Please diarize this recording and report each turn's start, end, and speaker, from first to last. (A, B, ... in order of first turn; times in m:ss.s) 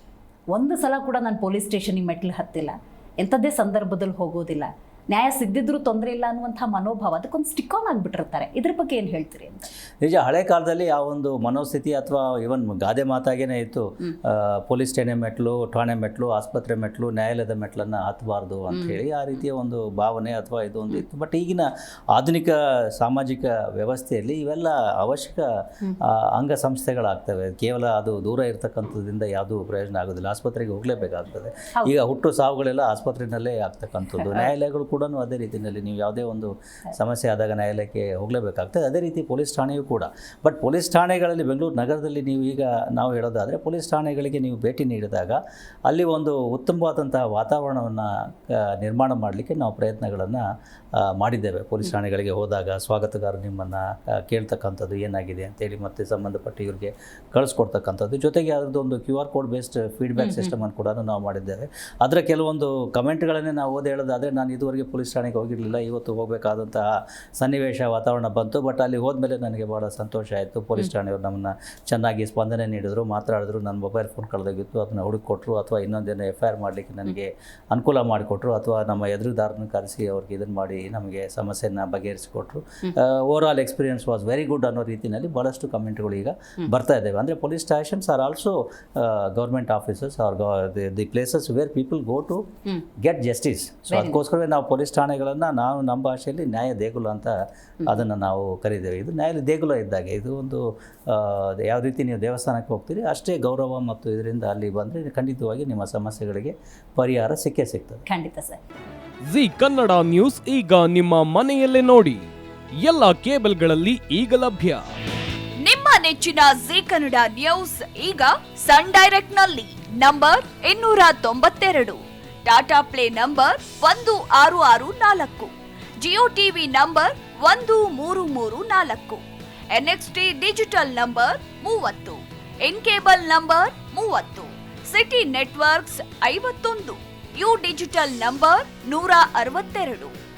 0:00.5-0:09.7 A
0:10.0-0:25.5 B
0:26.0-0:50.4 B
0:34.2-0:34.5 A
0:51.0-1:06.8 B
1:00.2-1:00.5 A
1:07.4-1:32.4 B
1:33.0-1:48.0 B
1:33.9-1:34.2 A
1:48.1-1:48.6 A
1:49.3-1:52.2 C
1:52.8-1:54.9 C
1:55.6-2:20.2 D